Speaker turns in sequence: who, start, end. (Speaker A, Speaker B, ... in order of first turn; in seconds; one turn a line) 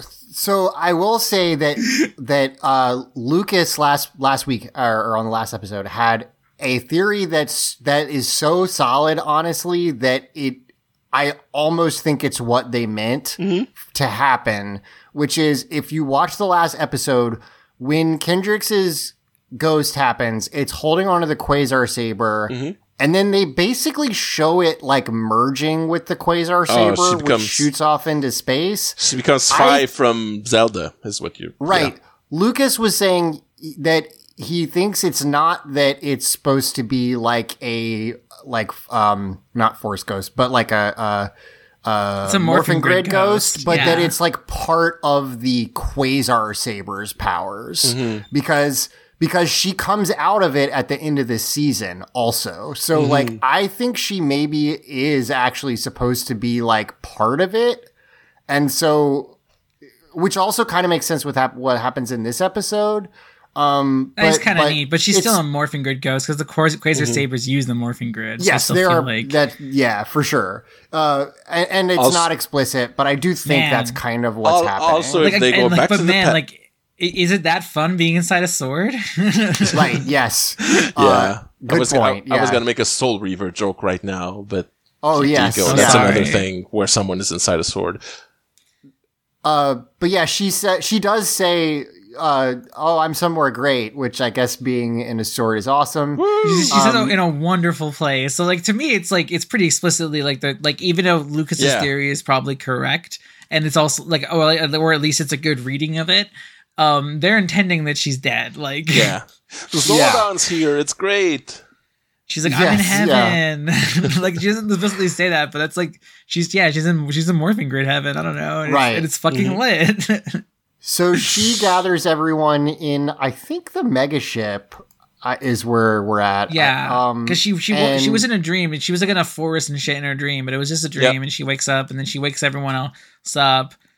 Speaker A: 0.3-29.0
Speaker B: 13.4-13.7
Speaker B: 22.5-22.8
Speaker B: 26.7-27.7
Speaker B: 29.0-31.9
Speaker A: 29.5-29.9
Speaker A: 31.6-41.3
Speaker A: 41.8-57.9
Speaker C: 42.2-44.1
Speaker B: 47.9-48.2
Speaker B: 53.0-53.4
Speaker A: 58.5-59.4
Speaker A: 60.1-65.4
Speaker C: 64.2-69.4
Speaker B: 67.0-67.2
Speaker A: 68.4-75.3
Speaker B: 72.0-72.3
Speaker C: 73.5-74.0
Speaker B: 74.4-76.4
Speaker C: 75.2-80.0
Speaker A: 79.7-82.6
Speaker B: 81.0-88.0
Speaker A: 85.0-86.2
Speaker C: 85.7-86.5
Speaker A: 89.4-97.2
Speaker B: 96.2-96.8
Speaker C: 96.4-109.2
Speaker B: 101.6-101.9
Speaker B: 108.9-111.6
Speaker A: 109.9-110.3
Speaker C: 112.3-120.4
Speaker A: 112.5-113.4
Speaker A: 118.7-119.1
Speaker B: 119.3-119.6
Speaker A: 120.8-128.2
Speaker C: 126.5-133.8